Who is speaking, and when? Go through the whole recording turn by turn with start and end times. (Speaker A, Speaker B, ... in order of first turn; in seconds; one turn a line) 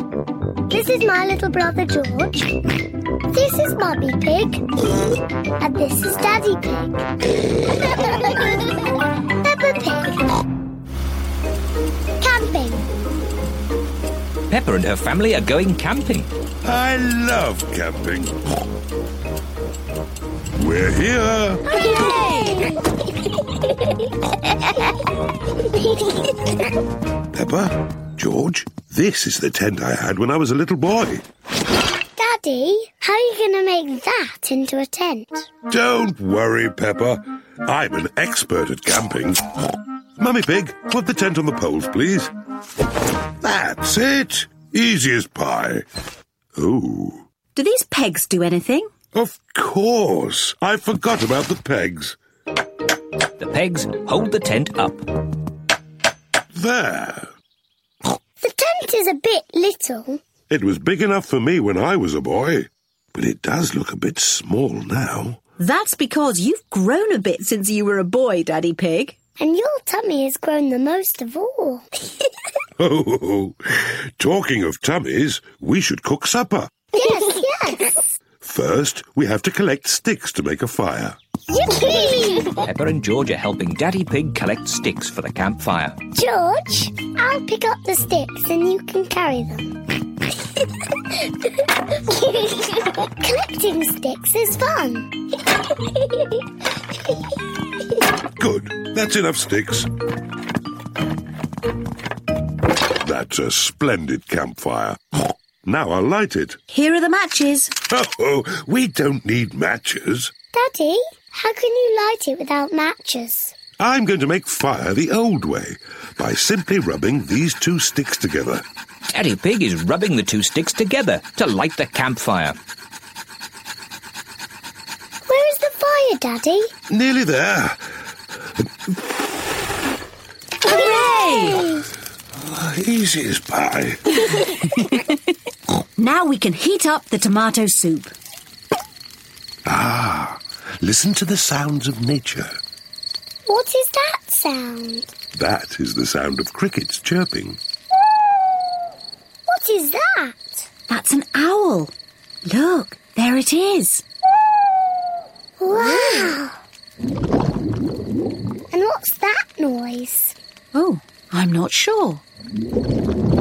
Speaker A: 0.7-2.6
Speaker A: 3.3-4.6
Speaker A: 5.6-7.0
Speaker A: 9.3-10.2
Speaker A: 12.2-12.8
Speaker B: 14.5-16.3
Speaker C: 16.6-18.3
Speaker C: 20.6-21.6
Speaker A: 21.6-23.0
Speaker D: 21.7-22.7
Speaker A: 23.5-23.9
Speaker A: 25.6-26.6
Speaker C: 27.3-31.2
Speaker A: 32.1-35.5
Speaker C: 35.7-39.4
Speaker C: 40.2-42.3
Speaker C: 43.4-45.8
Speaker C: 46.5-47.2
Speaker D: 47.5-48.9
Speaker C: 49.1-52.1
Speaker B: 53.4-55.0
Speaker C: 56.5-57.3
Speaker A: 58.4-60.2
Speaker C: 60.5-65.4
Speaker D: 65.6-69.2
Speaker A: 69.4-71.8
Speaker C: 72.8-76.7
Speaker A: 76.9-78.1
Speaker C: 78.4-81.2
Speaker A: 81.5-82.6
Speaker B: 82.6-86.0
Speaker A: 86.1-89.7
Speaker A: 91.3-95.1
Speaker A: 95.7-96.4
Speaker C: 98.4-99.9
Speaker C: 103.0-105.0
Speaker C: 105.6-106.6
Speaker D: 106.7-107.7
Speaker C: 107.9-110.3
Speaker A: 110.5-113.5
Speaker C: 113.8-118.6
Speaker B: 119.1-122.6
Speaker A: 125.2-126.7
Speaker C: 126.9-127.8
Speaker D: 130.6-131.6
Speaker A: 130.6-131.9
Speaker C: 132.4-134.5
Speaker D: 136.0-138.1
Speaker C: 139.7-142.6
Speaker A: 143.4-145.1
Speaker C: 145.3-147.6
Speaker A: 149.5-150.7
Speaker D: 150.9-151.9
Speaker D: 152.4-154.0
Speaker A: 155.6-156.6
Speaker D: 155.7-156.3
Speaker A: 158.7-160.3
Speaker D: 160.7-162.2